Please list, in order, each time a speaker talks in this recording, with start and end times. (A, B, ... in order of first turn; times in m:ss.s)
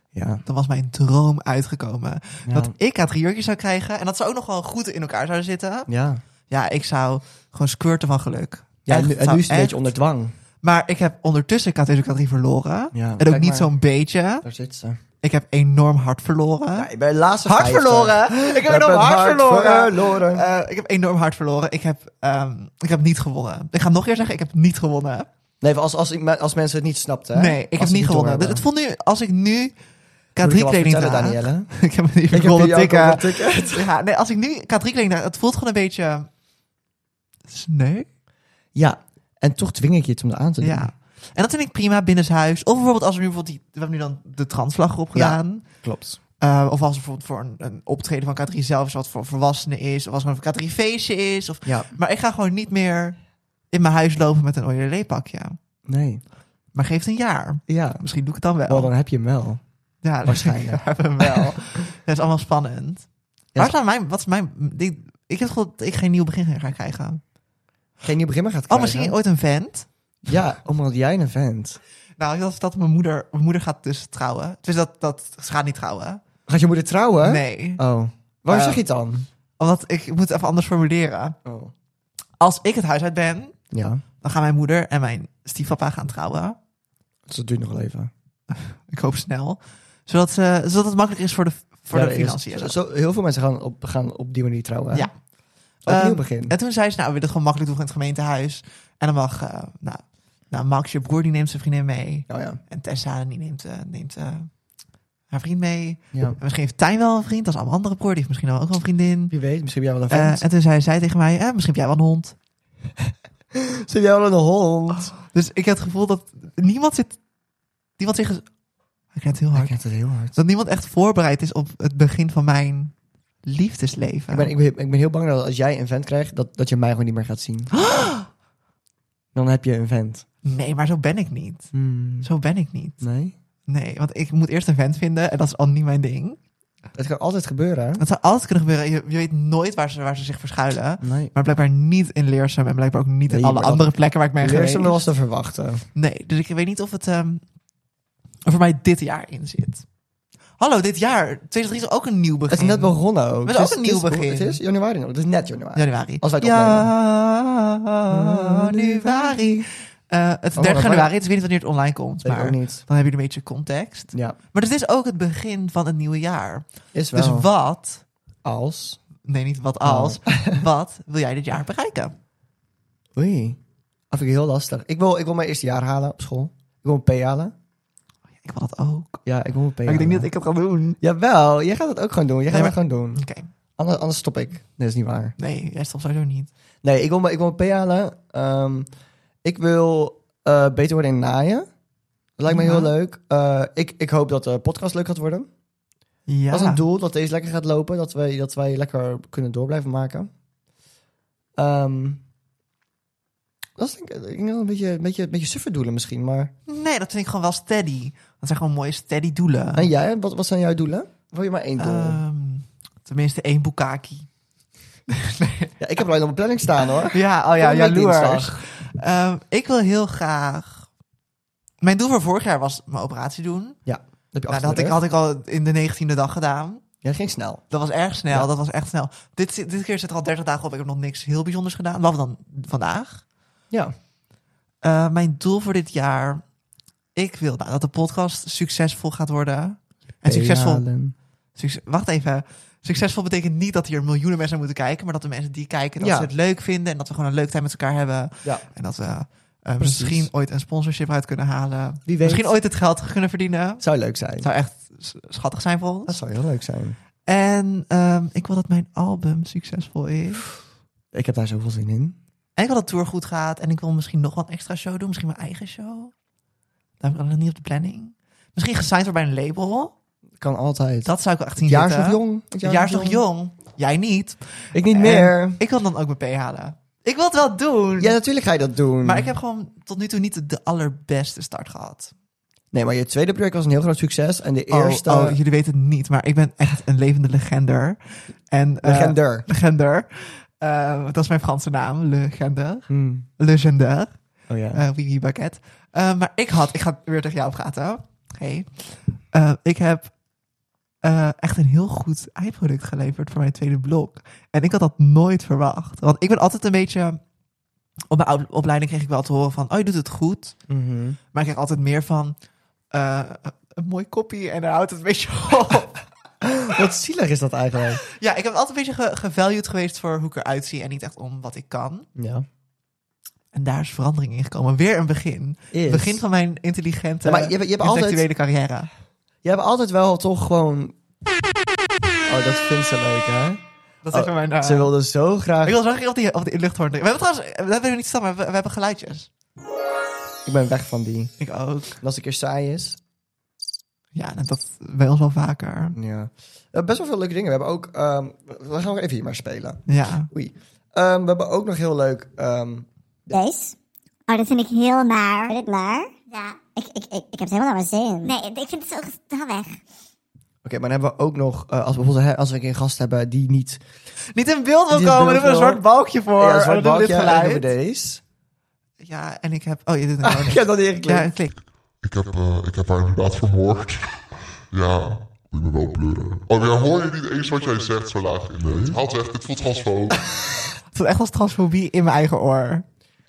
0:00.1-0:00.4 A
0:00.4-0:05.9 B
0:02.5-0:02.7 A
0:05.9-0:06.2 A
0:06.5-0:09.9 B
0:08.9-0:10.3 A
0:10.6-0:14.4 B
0:12.9-0:13.7 A
0:14.4-0:15.0 A
0:15.2-0:16.9 B
0:16.8-0:20.5 A
0:17.4-0:25.3 B
0:25.6-0:28.6 A
0:27.4-0:29.7 B
0:30.4-0:36.3 B
0:30.4-0:31.7 A
0:32.3-0:33.9 A
0:37.5-0:38.1 B
0:38.8-0:40.9 A
0:40.6-0:45.7 B
0:45.2-0:46.2 A
0:46.4-0:53.2 B
0:51.7-0:51.9 A
0:53.7-0:55.6 B
0:55.9-0:56.2 A
0:56.7-0:58.9 B
0:57.7-0:58.0 A
0:58.7-0:59.6 A
1:00.0-1:07.2 B
1:00.2-1:01.6 A
1:08.0-1:09.2 A
1:08.7-1:09.9 B
1:10.3-1:11.8 A
1:12.2-1:16.2 B
1:16.5-1:19.3 A
1:17.2-1:17.8 B
1:18.5-1:18.8 B
1:19.6-1:21.4 B
1:21.4-1:21.7 A
1:22.4-1:23.6 B
1:23.7-1:24.0 A
1:24.2-1:26.6 B
1:27.3-1:28.1 A
1:28.5-1:32.8 B
1:31.9-1:35.1 A
1:35.8-1:36.5 A
1:35.8-1:44.5 B
1:42.3-1:42.6 A
1:45.3-1:49.3 B
1:49.3-1:50.4 A
1:50.1-1:52.4 B
1:53.5-1:55.1 A
1:55.2-1:57.2 B
1:58.0-1:58.5 B
1:59.1-1:59.8 B
1:59.6-2:00.4 A
2:00.4-2:04.5 B
2:04.3-2:07.7 A
2:07.7-2:08.3 B
2:09.4-2:10.3 A
2:10.4-2:11.7 B
2:11.7-2:12.3 A
2:12.2-2:13.0 B
2:13.0-2:13.3 A
2:13.7-2:16.4 B
2:17.0-2:18.0 A
2:18.0-2:25.0 B
2:21.0-2:21.3 A
2:23.3-2:23.9 A
2:24.4-2:25.8 A
2:26.0-2:27.4 B
2:28.5-2:29.8 B
2:30.6-2:34.6 B
2:32.5-2:36.9 A
2:35.8-2:48.0 B
2:38.1-2:39.7 A
2:40.6-2:41.1 A
2:42.2-2:42.8 A
2:46.9-2:47.5 A
2:48.4-2:49.0 A
2:49.2-2:52.2 B
2:49.8-2:50.6 A
2:53.2-2:53.6 A
2:54.1-2:57.5 A
2:58.4-2:59.2 B
2:59.3-3:00.3 A
2:59.9-3:01.0 B
3:01.0-3:03.2 A
3:02.5-3:03.5 B
3:03.8-3:05.4 A
3:05.4-3:06.5 B
3:06.8-3:08.9 A
3:09.4-3:11.7 A
3:12.4-3:15.5 A
3:12.5-3:12.9 B
3:16.3-3:16.8 B
3:16.5-3:20.3 A
3:21.6-3:22.2 A
3:23.8-3:26.5 A
3:26.7-3:29.9 B
3:29.8-3:32.2 A
3:31.8-3:34.3 B
3:35.1-3:35.7 B
3:35.8-3:38.6 A
3:37.1-3:40.9 B
3:41.8-3:43.8 B
3:43.9-3:45.0 A
3:44.5-3:46.8 B
3:47.0-3:47.6 A
3:47.7-3:53.2 B
3:54.8-3:56.4 B
3:57.2-4:00.9 B
4:00.2-4:01.2 A
4:01.6-4:13.8 B
4:06.0-4:06.3 A
4:09.8-4:10.3 A
4:12.1-4:12.5 A
4:13.8-4:14.5 A
4:14.4-4:16.2 B
4:16.1-4:17.0 A
4:17.3-4:20.5 B
4:21.1-4:22.2 A
4:22.6-4:26.1 B
4:27.0-4:29.9 B
4:30.4-4:31.1 A
4:31.1-4:38.2 B
4:31.6-4:33.2 A
4:34.7-4:35.6 A
4:38.0-4:39.3 A
4:39.0-4:42.1 B
4:42.7-4:45.4 A
4:44.7-4:48.0 B
4:48.5-4:54.2 B
4:48.8-4:49.5 A
4:52.9-4:53.3 A
4:54.5-4:54.8 A
4:54.7-5:00.1 B
5:01.0-5:07.2 B
5:08.1-5:10.6 B
5:10.7-5:11.2 A
5:11.3-5:12.4 B
5:12.9-5:16.0 B
5:16.4-5:18.0 A
5:18.1-5:22.1 B
5:22.2-5:22.5 A
5:23.5-5:28.9 B
5:25.7-5:26.2 A
5:27.2-5:28.2 A
5:29.4-5:31.0 A
5:32.3-5:35.8 A
5:34.0-5:34.9 B
5:35.6-5:39.3 B
5:40.5-5:41.3 A
5:41.4-5:42.0 B
5:42.0-5:43.0 A
5:44.2-5:46.0 B
5:45.9-5:53.3 A
5:49.9-5:50.3 B
5:53.3-5:53.7 C
5:54.3-5:59.8 C
6:00.6-6:03.8 A
6:04.3-6:07.7 B
6:04.9-6:05.8 A
6:06.4-6:08.2 A
6:09.0-6:11.6 B
6:10.2-6:11.3 A
6:12.0-6:20.4 D
6:20.9-6:22.8 B